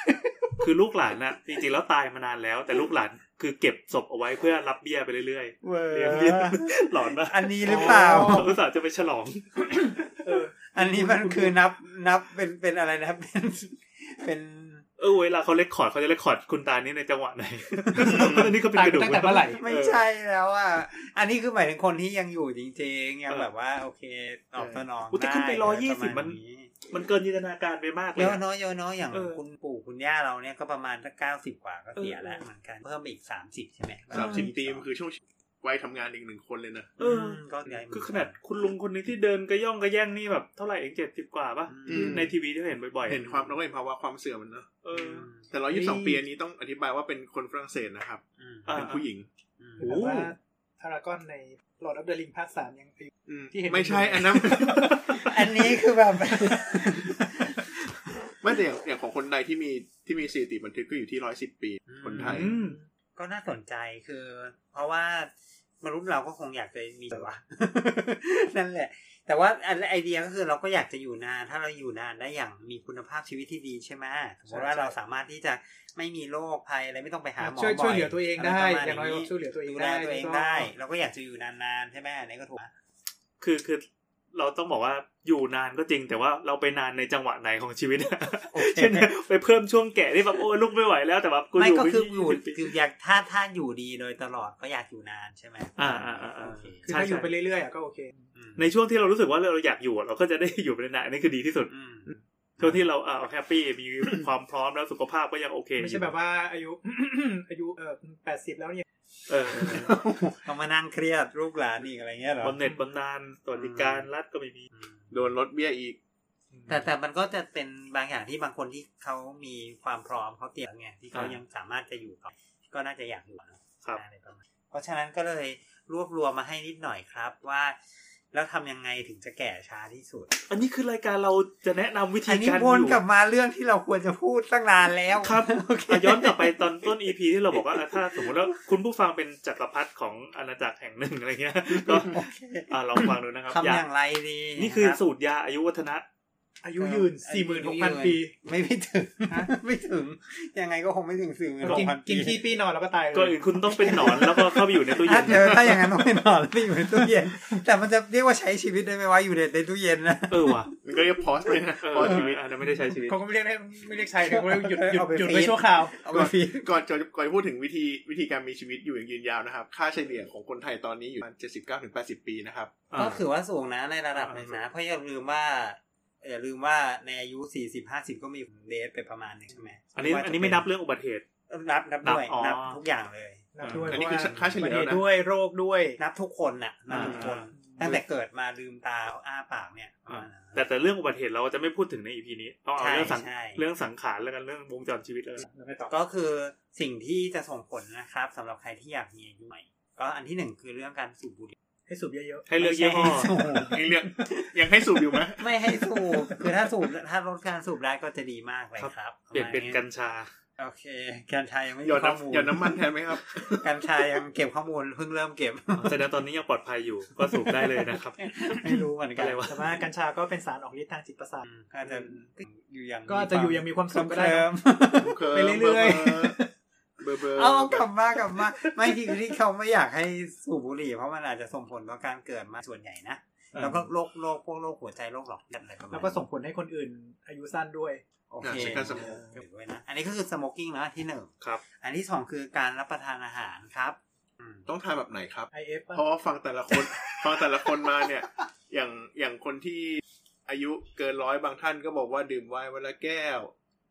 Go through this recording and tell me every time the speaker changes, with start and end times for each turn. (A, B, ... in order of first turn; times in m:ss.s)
0:00.6-0:09.8 A
0:05.6-0:08.6 B
0:07.7-0:08.5 C
0:10.2-0:10.7 C
0:10.7-0:14.8 B
0:15.0-0:20.0 A
0:18.0-0:19.6 C
0:18.1-0:18.6 D
0:19.4-0:26.7 B
0:24.6-0:24.8 D
0:25.1-0:26.4 A
0:26.9-0:28.4 A
0:28.2-0:34.8 B
0:29.1-0:29.4 A
0:32.0-0:32.4 A
0:34.1-0:37.0 D
0:34.1-0:34.5 A
0:37.0-0:38.4 B
0:37.0-0:43.3 A
0:41.7-0:42.3 B
0:41.9-0:42.3 D
0:43.1-0:44.7 D
0:44.8-0:45.3 A
0:44.9-0:45.5 B
0:45.5-0:49.3 D
0:45.7-0:46.2 C
0:48.4-0:48.7 B
0:48.7-0:49.0 A
0:49.6-0:49.9 B
0:49.8-0:50.3 A
0:49.8-0:55.8 C
0:53.3-0:55.2 D
0:55.1-0:58.2 B
0:56.4-0:57.3 C
0:58.4-1:02.5 D
1:01.9-1:02.5 B
1:02.2-1:02.8 A
1:02.5-1:02.8 C
1:03.2-1:22.7 B
1:14.5-1:14.9 C
1:17.4-1:20.7 C
1:23.4-1:32.7 A
1:28.5-1:29.1 B
1:31.6-1:36.9 B
1:35.8-1:37.3 A
1:36.9-1:38.3 C
1:38.4-1:38.6 B
1:38.6-1:41.7 A
1:41.7-1:42.8 B
1:42.6-1:46.1 A
1:45.8-1:48.8 C
1:49.3-1:49.9 A
1:49.6-1:52.6 B
1:52.4-1:54.6 A
1:53.5-1:54.1 B
1:54.8-1:55.1 B
1:55.1-1:56.0 D
1:56.5-1:56.9 A
1:56.7-2:07.8 B
2:08.3-2:10.4 B
2:10.5-2:13.0 A
2:12.3-2:18.5 B
2:15.2-2:23.8 A
2:21.8-2:22.7 B
2:23.5-2:25.0 B
2:24.6-2:26.0 A
2:26.6-2:28.4 C
2:26.8-2:32.5 B
2:31.6-2:31.9 A
2:31.6-2:34.0 C
2:33.1-2:35.7 A
2:33.7-2:41.0 B
2:35.3-2:35.8 D
2:40.3-2:40.7 A
2:40.8-2:42.5 D
2:41.8-2:43.2 A
2:43.0-2:45.9 C
2:44.2-2:46.6 B
2:46.1-2:52.7 D
2:52.9-2:53.2 A
2:53.0-3:00.7 B
2:54.1-2:54.6 A
3:00.0-3:01.2 A
3:01.5-3:03.9 B
3:02.0-3:02.8 A
3:03.5-3:06.0 C
3:03.6-3:04.5 A
3:03.9-3:05.0 D
3:06.0-3:10.6 B
3:06.9-3:07.5 A
3:06.9-3:07.3 D
3:07.5-3:08.0 C
3:10.1-3:15.5 A
3:12.8-3:13.6 B
3:15.4-3:15.9 C
3:15.9-3:21.6 B
3:21.9-3:22.5 C
3:22.5-3:23.4 A
3:22.6-3:23.8 B
3:23.4-3:26.5 C
3:23.6-3:25.5 D
3:25.4-3:29.8 B
3:28.8-3:30.3 A
3:30.6-3:36.1 B
3:31.8-3:33.7 D
3:35.8-3:39.7 A
3:37.2-3:39.4 B
3:39.5-3:41.4 C
3:41.5-3:45.2 B
3:41.9-3:42.3 D
3:43.1-3:44.5 C
3:45.0-3:46.4 D
3:45.3-3:46.5 C
3:47.0-3:47.9 D
3:47.3-3:56.2 B
3:48.6-3:49.1 C
3:53.5-3:53.9 A
3:55.9-3:58.0 C
3:58.3-4:04.6 B
3:58.4-3:59.3 D
3:58.8-3:59.2 A
4:04.7-4:13.5 D
4:05.5-4:06.0 C
4:07.3-4:08.1 B